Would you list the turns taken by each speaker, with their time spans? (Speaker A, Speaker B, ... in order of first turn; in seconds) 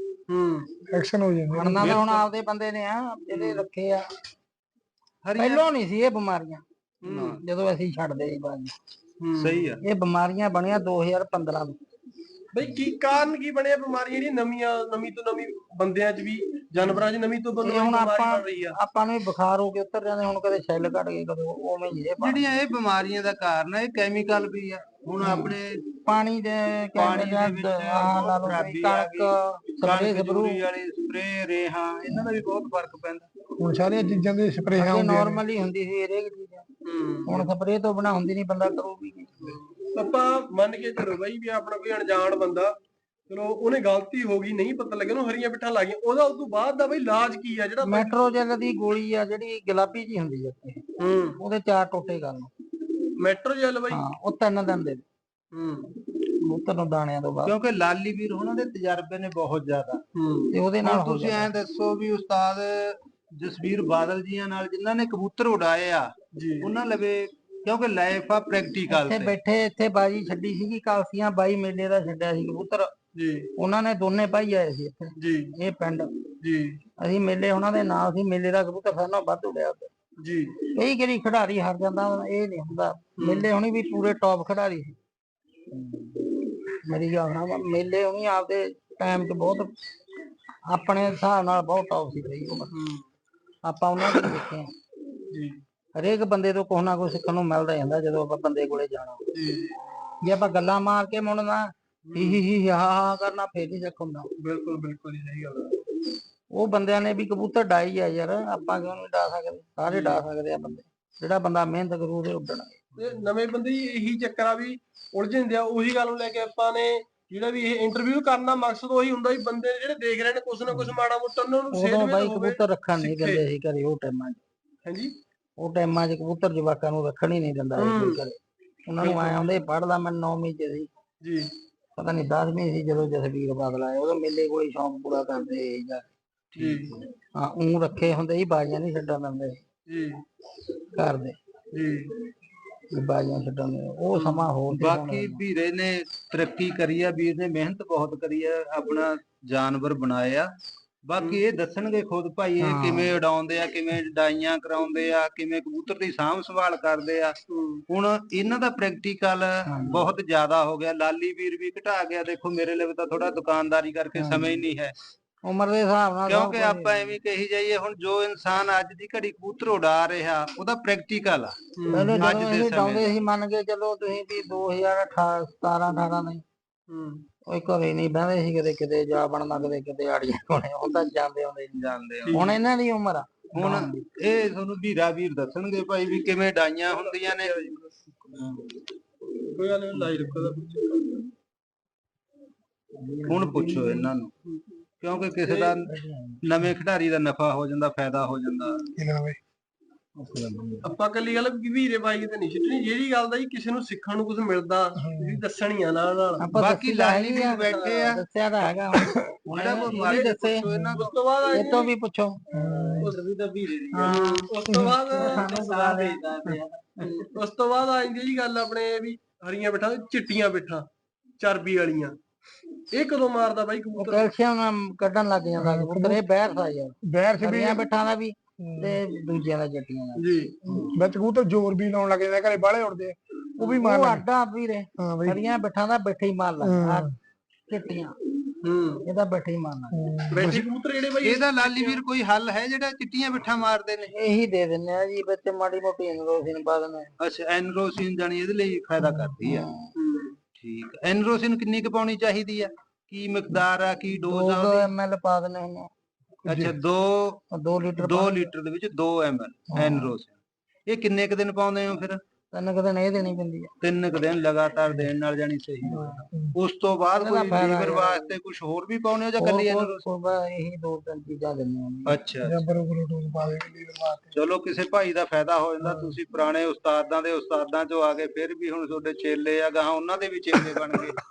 Speaker A: 0.3-0.7, 3.3-3.6, 7.0-7.4, 9.2-9.8, 12.5-18.8, 34.0-34.3, 36.9-37.5, 39.4-42.8, 43.3-48.2, 51.0-51.4, 53.2-54.0, 55.5-55.9, 60.1-60.6, 66.3-66.7, 73.2-73.5, 75.2-75.5, 76.4-76.8, 80.2-80.6, 83.2-83.5, 92.7-93.1, 95.3-95.6, 99.3-99.8, 102.1-102.4, 104.4-105.8, 109.9-110.2, 113.0-123.5, 124.8-125.2, 127.8-128.2, 129.0-129.5, 131.2-131.5, 136.6-137.0, 139.9-140.2, 141.7-142.2, 144.1-144.5, 157.5-157.8, 171.8-172.2, 176.9-177.2, 182.2-182.6, 186.9-187.9, 189.5-191.2, 195.4-195.8, 200.8-206.5, 209.6-210.4, 210.9-211.9, 214.0-215.6, 217.0-220.9, 221.4-222.2, 222.9-224.3, 230.2-230.8, 238.6-239.0, 240.3-242.0, 249.9-250.4
Speaker B: 0.9-2.0, 33.6-35.4, 199.0-199.4, 205.0-205.4, 210.7-210.9, 212.5-213.2, 214.7-215.2, 225.6-226.2, 227.1-227.8, 228.6-229.0, 230.7-234.3, 235.0-235.4, 236.6-237.1, 239.9-240.7, 256.4-256.8, 265.9-266.6, 272.4-274.4, 275.8-276.1
Speaker C: 1.6-4.1, 5.4-6.6, 7.4-8.8, 9.8-11.8, 17.6-22.4, 25.2-30.6, 34.8-36.7, 37.3-39.6, 47.8-50.8, 51.4-52.5, 53.9-55.0, 56.4-57.5, 60.5-61.5, 68.9-72.9, 73.6-76.1, 77.0-79.9, 80.8-85.0, 85.7-89.7, 90.7-92.7, 93.6-94.7, 96.0-99.2, 100.2-104.3, 106.5-112.8, 121.7-124.4, 125.6-130.9, 132.0-136.1, 137.3-139.6, 140.9-141.4, 142.9-145.4, 152.6-153.1, 159.7-160.1, 164.2-164.6, 165.4-167.2, 171.9-176.4, 177.5-181.8, 182.3-183.9, 193.0-194.1, 195.9-196.4, 200.2-200.9, 206.4-210.9, 211.5-214.5, 215.1-217.3, 224.0-230.9, 233.6-237.1, 237.7-238.2, 239.1-240.1, 244.1-247.1, 249.3-249.9, 254.3-255.9, 257.5-258.5, 259.7-260.1, 262.5-263.7, 267.2-268.3, 269.4-272.2
Speaker D: 1.7-2.2, 5.2-5.7, 7.0-7.4, 9.4-9.8, 22.2-25.9, 26.9-33.3, 57.5-60.0, 60.8-69.3, 136.6-136.9, 144.7-150.5, 151.1-157.4, 157.9-164.9, 166.3-173.1, 181.8-182.5, 183.5-187.7, 193.3-194.3, 195.0-195.9, 196.4-198.8, 206.5-208.2, 209.5-211.1, 213.5-214.1, 215.2-216.3, 241.2-244.1, 247.2-249.7, 250.6-254.9, 256.5-257.4, 258.0-262.2, 263.8-270.0, 272.1-272.6, 274.3-281.2